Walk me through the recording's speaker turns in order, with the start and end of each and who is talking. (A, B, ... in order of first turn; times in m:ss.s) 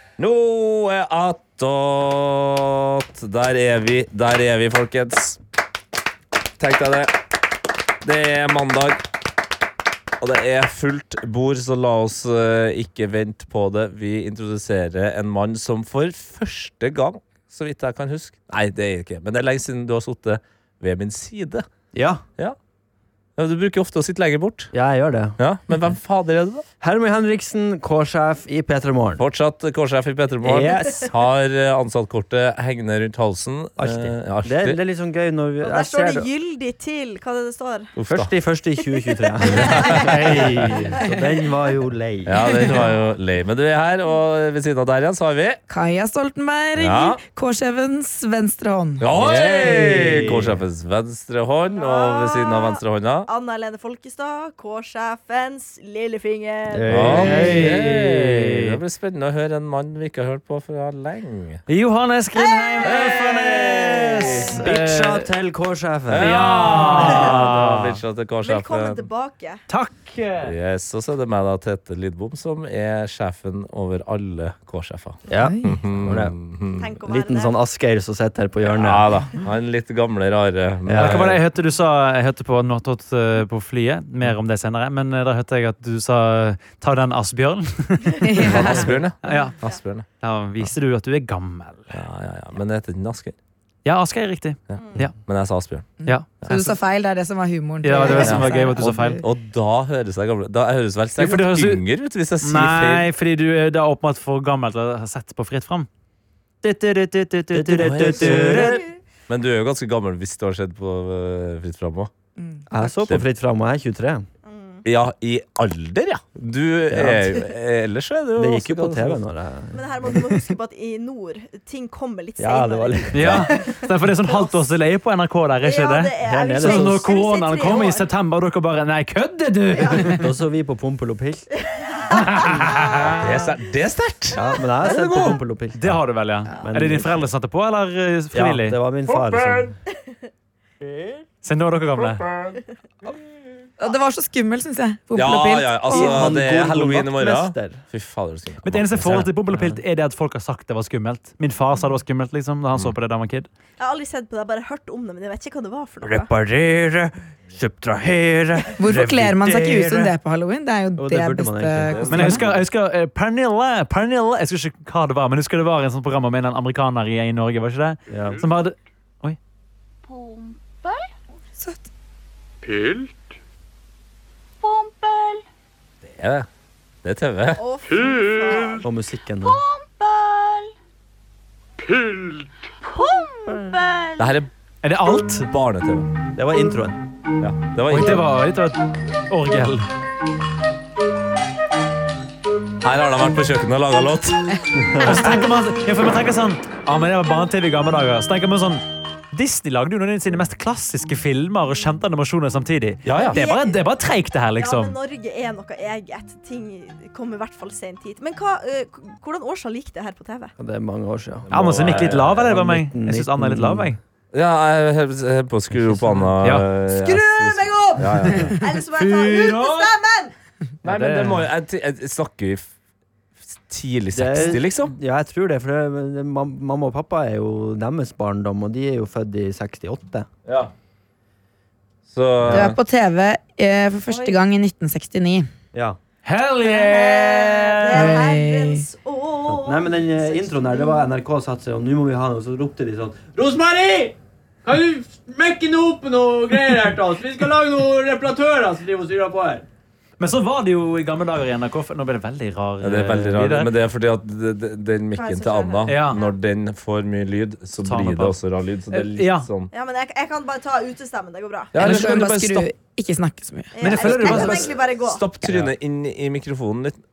0:00.2-0:05.4 A
0:06.6-0:07.2 A
0:08.0-0:09.1 A
0:10.2-0:21.6 A
0:21.9-0:22.2 B
0:23.4-0:24.7 A
0:24.7-0:25.4 B
0:25.4-0:26.6 A
0:26.8-0:29.2 B
0:29.2-0:34.8 A
0:30.4-0:31.1 B
0:33.8-0:36.3 B
0:35.6-0:37.9 C
0:38.0-0:38.3 A
0:38.1-0:42.7 B
0:39.4-0:40.4 C
0:39.5-0:40.3 A
0:40.3-0:40.7 D
0:42.2-0:45.6 A
0:45.7-0:49.1 E
0:46.8-0:47.2 A
0:49.0-0:53.3 A
0:49.1-0:50.6 B
0:51.8-0:57.3 C
0:56.7-0:58.2 B
0:56.9-1:01.6 A
0:57.1-0:58.8 D
1:01.7-1:05.3 D
1:02.5-1:02.9 C
1:02.8-1:04.6 A
1:04.4-1:07.1 B
1:06.1-1:09.0 A
1:06.2-1:08.0 D
1:08.4-1:09.6 C
1:09.7-1:10.5 D
1:10.4-1:16.9 A
1:15.3-1:16.3 B
1:15.3-1:15.7 E
1:16.8-1:17.6 C
1:17.0-1:19.1 B
1:18.6-1:21.4 A
1:20.8-1:21.2 B
1:21.0-1:29.5 D
1:28.2-1:29.0 E
1:28.4-1:30.1 A
1:30.2-1:31.9 D
1:31.9-1:33.4 A
1:33.8-1:35.1 D
1:34.7-1:35.9 A
1:36.0-1:36.8 D
1:36.0-1:39.2 E
1:37.8-1:39.2 D
1:38.1-1:43.1 A
1:41.2-1:41.8 D
1:42.4-1:45.9 D
1:46.6-1:48.8 D
1:47.5-1:48.8 B
1:47.7-1:52.1 A
1:52.4-1:52.6 E
1:52.7-1:54.3 B
1:52.8-1:53.2 A
1:54.4-1:54.8 C
1:54.8-1:59.2 A
1:56.9-1:57.4 B
1:58.4-2:00.4 B
1:59.7-2:04.6 C
2:02.4-2:03.4 B
2:03.1-2:10.2 D
2:03.2-2:03.5 A
2:05.6-2:08.1 C
2:06.2-2:07.0 B
2:09.7-2:10.1 C
2:10.1-2:11.5 B
2:11.6-2:12.6 C
2:12.1-2:13.2 D
2:13.1-2:15.4 A
2:14.3-2:16.0 B
2:15.8-2:18.8 D
2:16.6-2:17.3 B
2:18.3-2:19.8 B
2:19.0-2:19.7 A
2:20.8-2:21.2 B
2:21.4-2:22.2 D
2:22.0-2:22.6 A
2:23.8-2:26.3 E
2:25.1-2:29.3 A
2:25.9-2:27.8 B
2:28.6-2:33.5 D
2:29.5-2:29.8 B
2:33.8-2:36.3 C
2:36.0-2:40.1 B
2:38.8-2:42.4 E
2:41.0-2:42.5 B
2:41.8-2:42.5 A
2:42.1-2:49.4 D
2:48.1-2:48.4 B
2:51.6-2:51.8 E
2:56.0-2:56.5 A
2:57.0-2:57.6 A
2:57.6-2:58.8 C
2:58.8-2:59.6 B
3:03.0-3:04.0 C
3:04.2-3:04.5 A
3:04.8-3:05.5 D
3:05.5-3:06.1 A
3:06.3-3:07.0 B
3:07.4-3:08.2 A
3:07.9-3:09.8 D
3:12.8-3:15.4 A
3:15.0-3:24.9 D
3:23.0-3:23.4 A
3:23.3-3:23.8 C
3:24.6-3:30.5 C
3:30.6-3:33.9 B
3:31.5-3:32.5 A
3:31.5-3:34.0 D
3:34.3-3:38.6 A
3:35.9-3:36.3 B
3:36.9-3:40.3 C
3:39.1-3:39.8 D
3:40.8-3:42.7 A
3:40.8-3:41.4 D
3:43.4-3:44.9 A
3:44.1-3:50.3 B
3:50.4-3:50.7 A
3:52.0-3:52.8 A
3:52.4-3:52.7 B
3:52.5-3:55.5 E
3:54.1-3:54.4 C
3:56.2-3:58.2 D
3:56.6-4:01.0 C
3:57.9-3:58.8 E
3:59.5-4:04.1 B
4:04.6-4:09.6 B
4:10.2-4:13.7 D
4:12.8-4:19.7 A
4:15.1-4:16.3 C
4:15.8-4:16.2 D
4:17.8-4:18.4 D
4:18.9-4:19.5 D
4:19.7-4:21.7 C
4:21.7-4:22.7 A
4:21.8-4:24.4 E
4:23.7-4:25.2 C
4:23.8-4:24.7 D
4:24.3-4:27.0 A